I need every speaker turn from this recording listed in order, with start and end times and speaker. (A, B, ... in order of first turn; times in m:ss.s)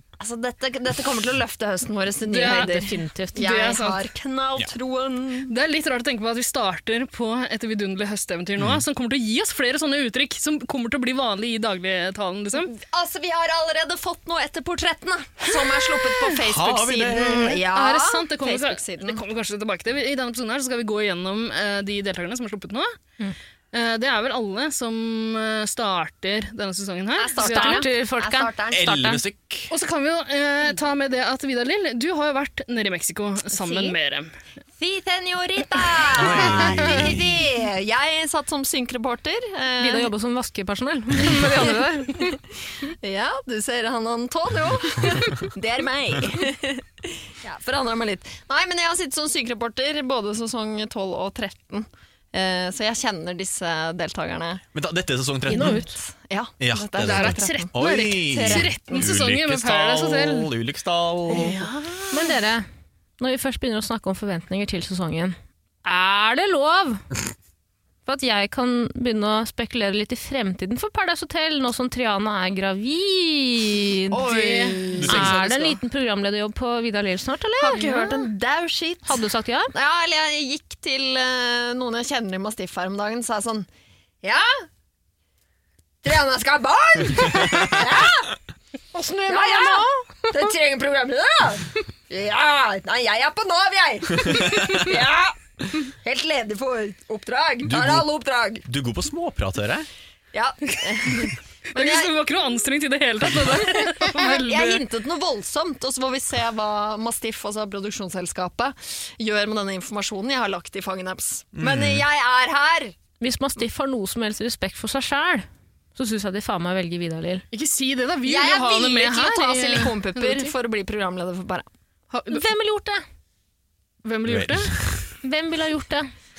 0:00.2-0:05.5 A
0:02.3-0:04.0 B
0:02.7-0:03.4 C
0:05.5-0:12.7 B
0:12.6-0:19.2 A
0:15.6-0:16.2 B
0:16.4-0:17.6 D
0:17.4-0:23.0 B
0:23.7-0:27.9 B
0:27.2-0:28.9 A
0:27.4-0:29.2 C
0:28.7-0:29.7 D
0:29.7-0:34.3 B
0:34.8-0:40.1 A
0:36.1-0:37.3 D
0:39.8-0:42.4 C
0:42.8-0:54.6 A
0:54.7-0:55.8 D
0:55.5-0:55.9 C
0:55.5-0:59.1 A
0:56.6-1:01.6 D
0:57.0-1:00.5 B
1:01.4-1:01.9 A
1:02.1-1:02.7 C
1:03.2-1:07.0 C
1:08.1-1:14.3 C
1:14.1-1:15.8 A
1:14.3-1:15.0 B
1:15.0-1:15.4 D
1:15.0-1:18.2 C
1:17.6-1:19.2 A
1:19.0-1:19.7 C
1:19.7-1:23.7 A
1:24.2-1:24.7 A
1:26.0-1:28.4 A
1:29.0-1:30.3 C
1:29.2-1:38.6 A
1:34.2-1:34.7 D
1:37.7-1:38.1 D
1:38.7-1:39.9 D
1:40.3-1:42.1 A
1:41.7-1:44.8 B
1:43.5-1:53.0 A
1:51.6-1:52.0 D
1:53.2-1:57.4 C
1:57.5-2:00.6 B
1:58.3-2:01.7 A
2:02.1-2:02.4 B
2:02.3-2:03.0 C
2:04.0-2:04.8 B
2:04.3-2:05.0 D
2:05.2-2:06.1 C